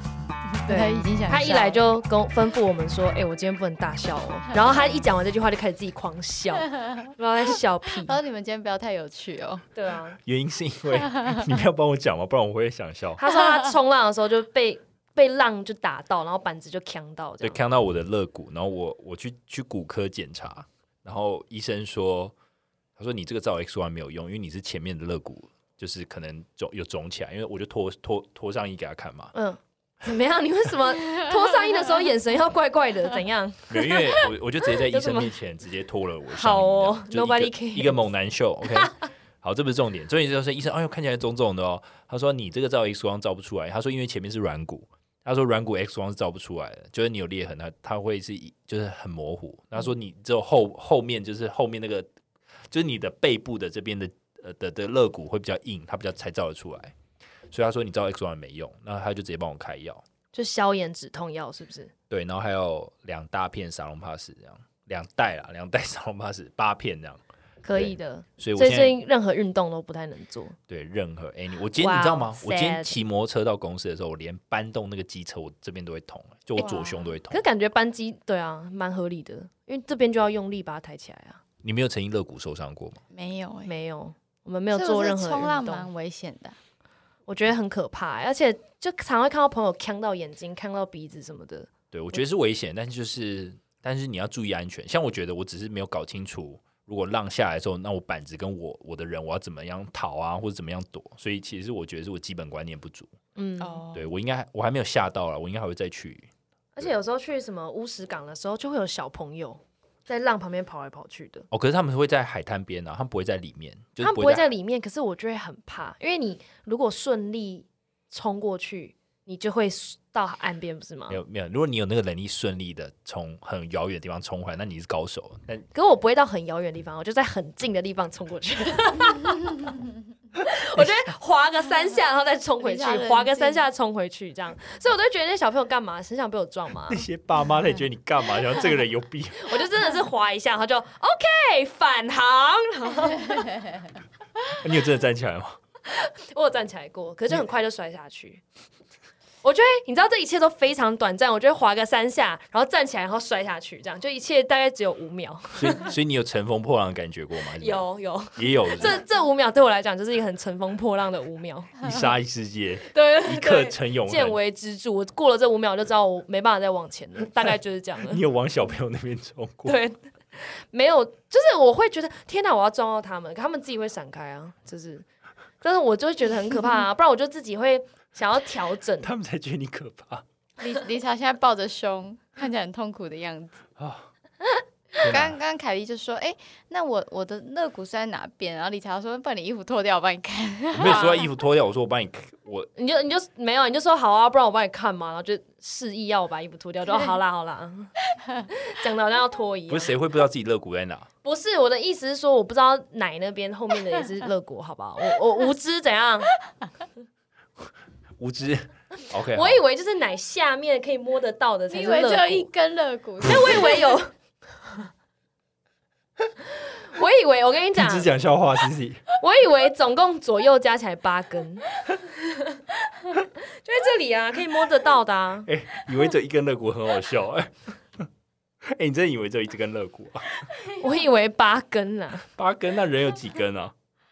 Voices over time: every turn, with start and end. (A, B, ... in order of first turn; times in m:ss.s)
0:00.5-0:01.8 A
0:00.7-0:08.2 B
0:08.0-0:09.6 A
0:09.8-0:10.2 B
0:10.2-0:13.2 C
0:13.2-0:17.6 B
0:17.4-0:22.3 C
0:23.0-0:29.4 C
0:29.4-0:35.3 B
0:33.7-0:52.1 C
0:36.3-0:38.0 B
0:38.7-0:38.9 B
0:52.7-0:57.0 C
0:57.5-1:00.0 C
1:00.3-1:01.9 B
1:02.1-1:07.2 C
1:07.6-1:10.6 B
1:07.7-1:09.0 C
1:10.7-1:17.4 C
1:11.8-1:13.0 B
1:16.6-1:17.1 A
1:16.6-1:21.4 B
1:21.6-1:23.0 C
1:23.1-1:23.7 A
1:23.7-1:25.9 B
1:24.7-1:26.6 A
1:27.3-1:32.2 B
1:31.9-1:43.1 C
1:43.4-1:43.8 B
1:43.6-1:44.1 A
1:43.9-1:46.9 C
1:46.8-1:51.5 B
1:51.5-1:54.5 C
1:54.0-2:01.2 B
2:01.1-2:05.7 C
2:05.7-2:09.6 B
2:10.4-2:17.0 B
2:12.6-2:13.6 A
2:16.9-2:19.6 C
2:19.4-2:23.6 B
2:24.5-2:25.6 C
2:25.9-2:28.4 B
2:29.4-2:35.9 B
2:35.6-2:39.0 C
2:37.6-2:41.9 B
2:41.8-2:44.4 C
2:42.9-2:48.2 B
2:48.0-2:49.8 C
2:49.6-2:55.0 B
2:55.6-2:59.1 B
2:59.0-3:00.2 C
3:00.6-3:03.6 A
3:03.8-3:04.1 C
3:05.0-3:05.4 C
3:05.0-3:11.2 A
3:10.7-3:12.7 C
3:10.8-3:11.2 B
3:12.8-3:17.9 B
3:18.5-3:20.0 B
3:19.7-3:21.1 C
3:21.2-3:26.3 B
3:28.2-3:29.6 C
3:29.3-3:32.5 B
3:31.7-3:34.0 A
3:33.2-3:34.1 B
3:36.7-3:38.1 B
3:37.8-3:39.0 C
3:39.2-3:45.5 B
3:45.5-3:48.1 C
3:48.6-3:50.5 C
3:50.8-3:52.3 B
3:52.4-3:53.7 C